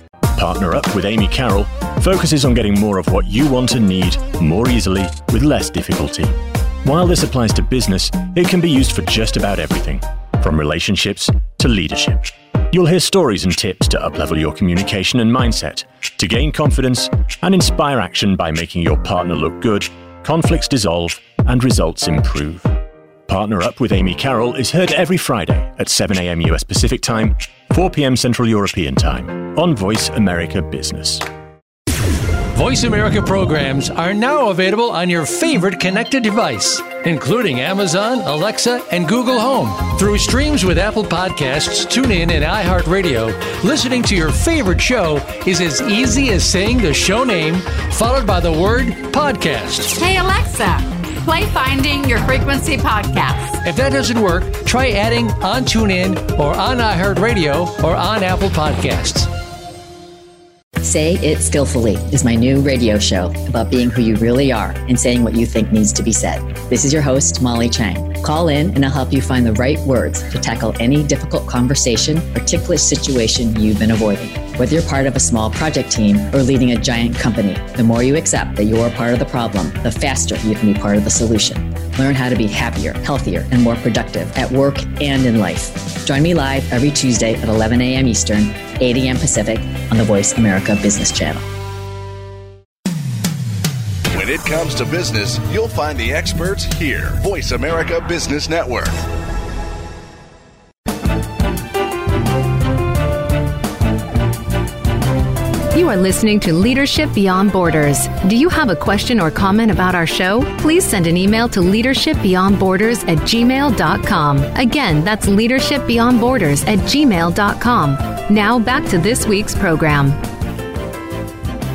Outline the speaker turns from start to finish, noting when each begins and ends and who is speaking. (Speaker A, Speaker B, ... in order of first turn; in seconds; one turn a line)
Speaker A: 0.3-22.7
Speaker A: 23.3-31.2
Speaker B: 32.5-49.9
Speaker C: 49.9-53.6
Speaker B: 53.6-59.3
Speaker D: 60.8-91.5
Speaker E: 94.1-99.0
Speaker F: 105.7-120.2